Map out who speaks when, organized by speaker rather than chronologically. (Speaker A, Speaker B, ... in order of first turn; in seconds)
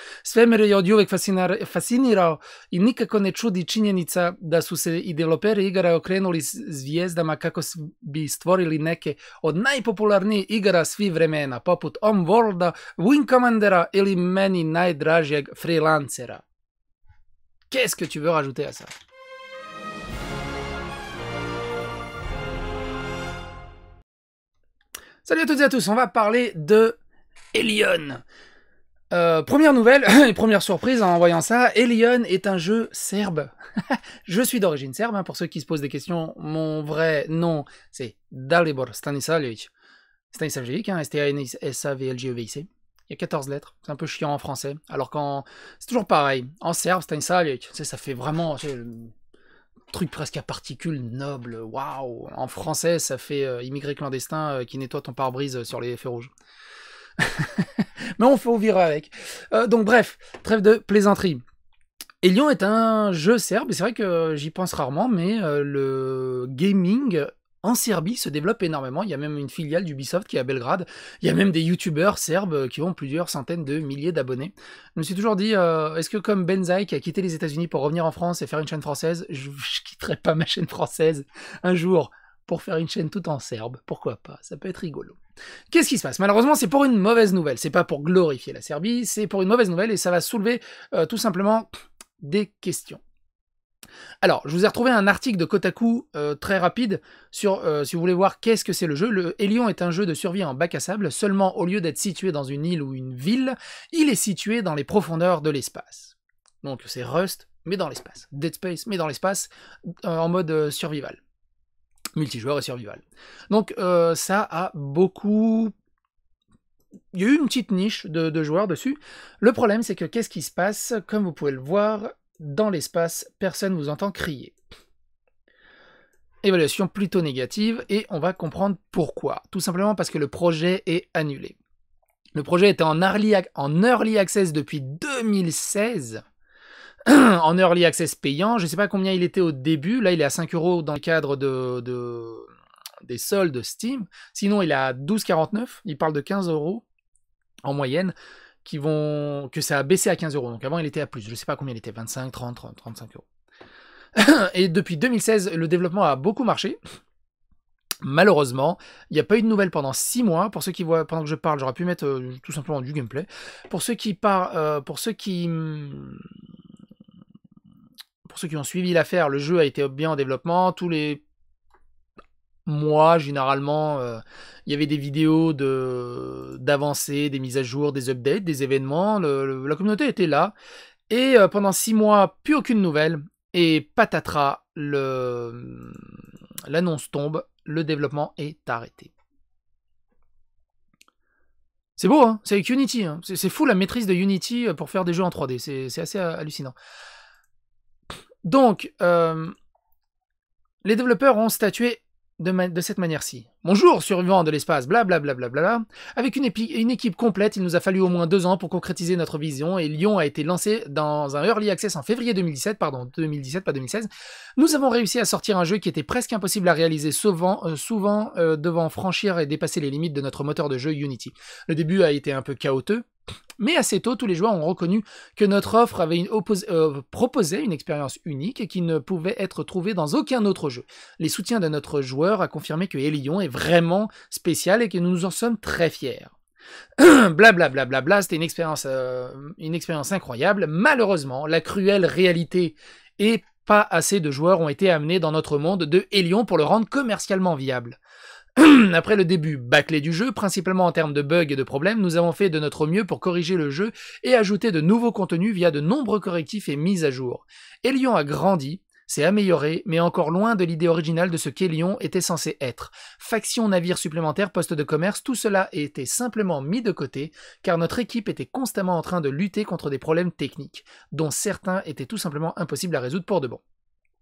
Speaker A: 0.2-16.4, 17.7-18.9, 25.2-27.0, 27.5-28.2, 29.1-33.5, 34.2-39.7, 40.3-49.1, 49.9-56.3, 57.2-61.4, 62.2-85.2, 85.7-91.7, 92.2-93.0, 94.2-109.5, 110.0-111.2, 112.2-115.7, 117.1-124.5, 126.4-131.6, 132.3-136.2, 137.1-142.5, 143.0-146.8, 147.6-148.1, 148.6-153.2, 154.2-156.8, 158.0-166.2, 168.2-171.2, 172.7-180.5, 181.1-186.0, 186.7-189.1, 192.0-196.7, 198.4-199.5, 200.8-223.0, 223.6-236.3, 237.0-248.0, 248.6-273.6